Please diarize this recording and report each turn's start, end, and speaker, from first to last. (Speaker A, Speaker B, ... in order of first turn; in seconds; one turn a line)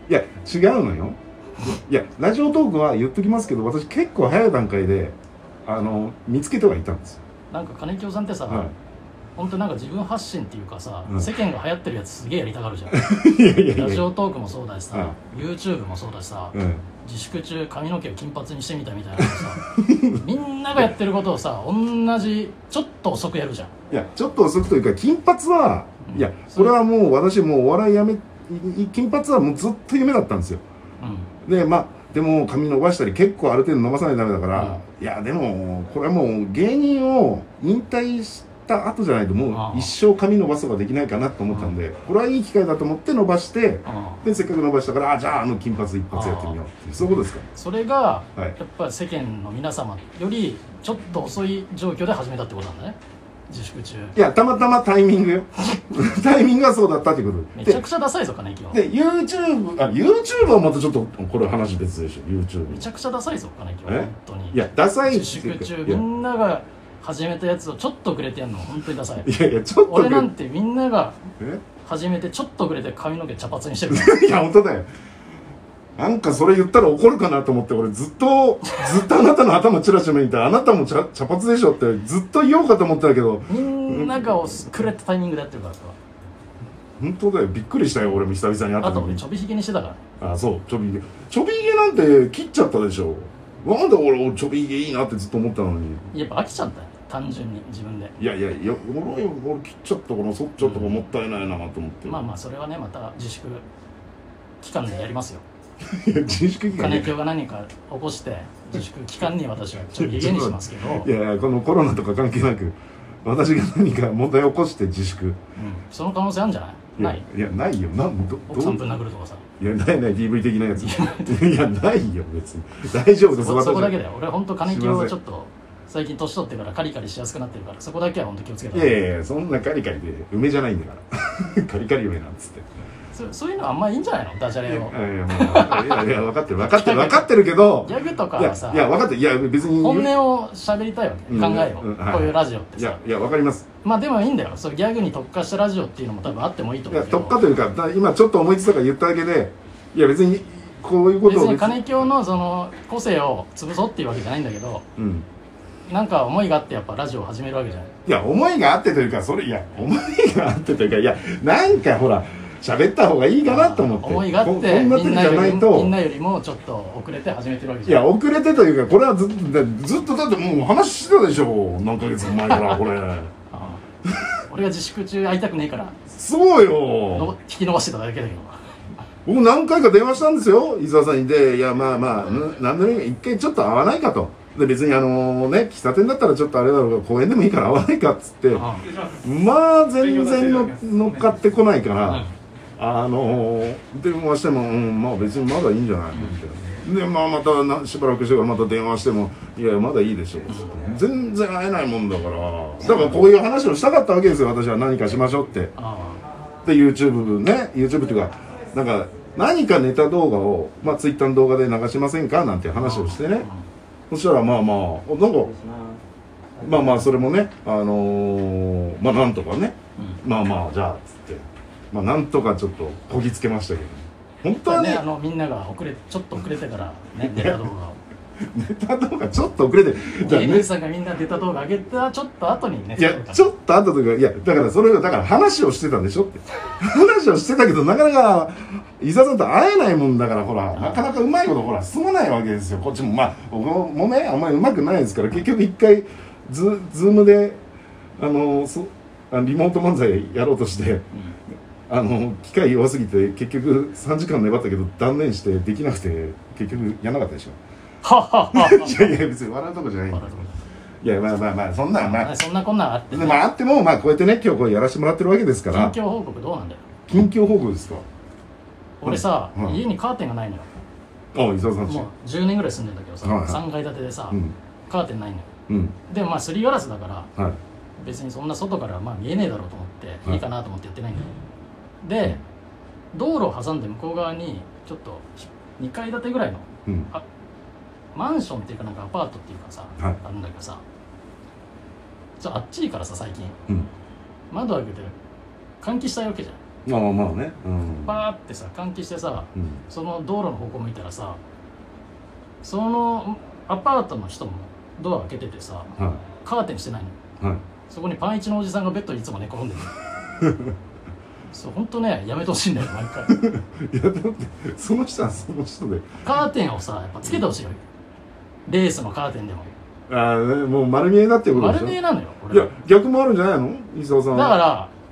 Speaker A: 0.1-7.2
Speaker B: 7.5-8.7
Speaker A: 8.5-8.7
Speaker B: 9.4-23.7
Speaker A: 12.9-14.1
Speaker A: 14.9-15.2
Speaker A: 16.5-16.8
Speaker A: 19.2-20.2
Speaker A: 23.9-30.6
Speaker B: 26.1-26.7
Speaker B: 31.0-31.3
Speaker A: 31.4-47.5
Speaker B: 34.5-34.8
Speaker B: 39.5-39.9
Speaker B: 41.5-41.7
Speaker B: 43.9-44.2
Speaker B: 46.1-46.6
Speaker B: 47.5-53.0
Speaker B: 53.5-54.1
Speaker A: 54.1-57.8
Speaker B: 57.5-58.8
Speaker A: 58.7-62.9
Speaker B: 62.7-69.3
Speaker A: 63.9-66.0
Speaker A: 69.2-70.3
Speaker B: 69.8-71.2
Speaker B: 71.8-74.2
Speaker A: 73.9-74.9
Speaker A: 76.0-84.7
Speaker B: 83.5-86.0
Speaker A: 87.0-89.2
Speaker B: 88.8-90.0
Speaker A: 90.2-96.0
Speaker B: 96.1-98.2
Speaker A: 98.2-102.2
Speaker B: 100.6-100.9
Speaker B: 102.0-103.7
Speaker B: 104.6-105.4
Speaker A: 105.8-107.1
Speaker B: 106.7-111.1
Speaker A: 110.0-115.4
Speaker B: 115.5-117.2
Speaker A: 117.0-118.8
Speaker B: 118.5-119.5
Speaker A: 119.6-124.0
Speaker B: 120.8-121.4
Speaker B: 123.3-129.0
Speaker A: 124.6-125.1
Speaker A: 128.7-132.7
Speaker B: 133.1-139.0
Speaker A: 134.7-140.1
Speaker B: 139.7-143.0
Speaker A: 141.3-143.7
Speaker B: 143.8-147.4
Speaker A: 146.9-152.1
Speaker B: 151.2-154.8
Speaker A: 155.0-155.2
Speaker B: 155.9-157.9
Speaker A: 158.1-166.0
Speaker B: 163.4-168.1
Speaker A: 167.8-173.3
Speaker B: 173.5-173.8
Speaker B: 174.5-176.0
Speaker A: 176.1-177.3
Speaker B: 177.1-178.7
Speaker A: 179.2-205.7
Speaker B: 188.5-188.9
Speaker B: 192.1-192.3
Speaker B: 196.1-196.4
Speaker B: 205.8-206.2
Speaker A: 206.6-213.5
Speaker B: 212.8-213.7
Speaker A: 214.1-215.6
Speaker A: 216.6-225.0
Speaker B: 220.0-220.2
Speaker B: 224.6-228.0
Speaker A: 227.2-227.6
Speaker A: 228.4-230.7
Speaker B: 230.2-233.5
Speaker A: 233.0-247.6
Speaker B: 240.7-241.0
Speaker A: 248.2-251.1
Speaker A: 251.9-257.6
Speaker B: 258.0-259.2
Speaker A: 258.5-260.4
Speaker B: 260.1-260.5
Speaker A: 261.0-262.3
Speaker B: 262.0-263.4
Speaker A: 263.1-266.0
Speaker B: 265.7-266.8
Speaker A: 267.1-268.1
Speaker B: 269.0-270.7
Speaker A: 269.0-269.8
Speaker A: 271.3-272.1
Speaker B: 271.8-275.5
Speaker A: 273.2-273.6
Speaker A: 275.7-276.0
Speaker B: 276.1-277.3
Speaker B: 278.0-281.3
Speaker B: 282.0-282.4
Speaker B: 283.1-287.2
Speaker A: 286.9-287.1
Speaker B: 288.1-290.8
Speaker B: 292.4-293.6
Speaker B: 294.5-295.1
Speaker B: 295.8-296.6
Speaker A: 296.9-298.2
Speaker B: 298.0-301.4
Speaker A: 299.6-299.8
Speaker B: 302.6-307.2
Speaker A: 306.0-306.2
Speaker B: 307.9-309.9
Speaker A: 310.4-310.8
Speaker B: 311.5-313.4
Speaker A: 313.3-316.1
Speaker B: 316.2-317.8
Speaker B: 318.7-319.7
Speaker A: 320.1-322.0
Speaker B: 321.5-322.8
Speaker A: 322.5-324.6
Speaker B: 324.3-324.9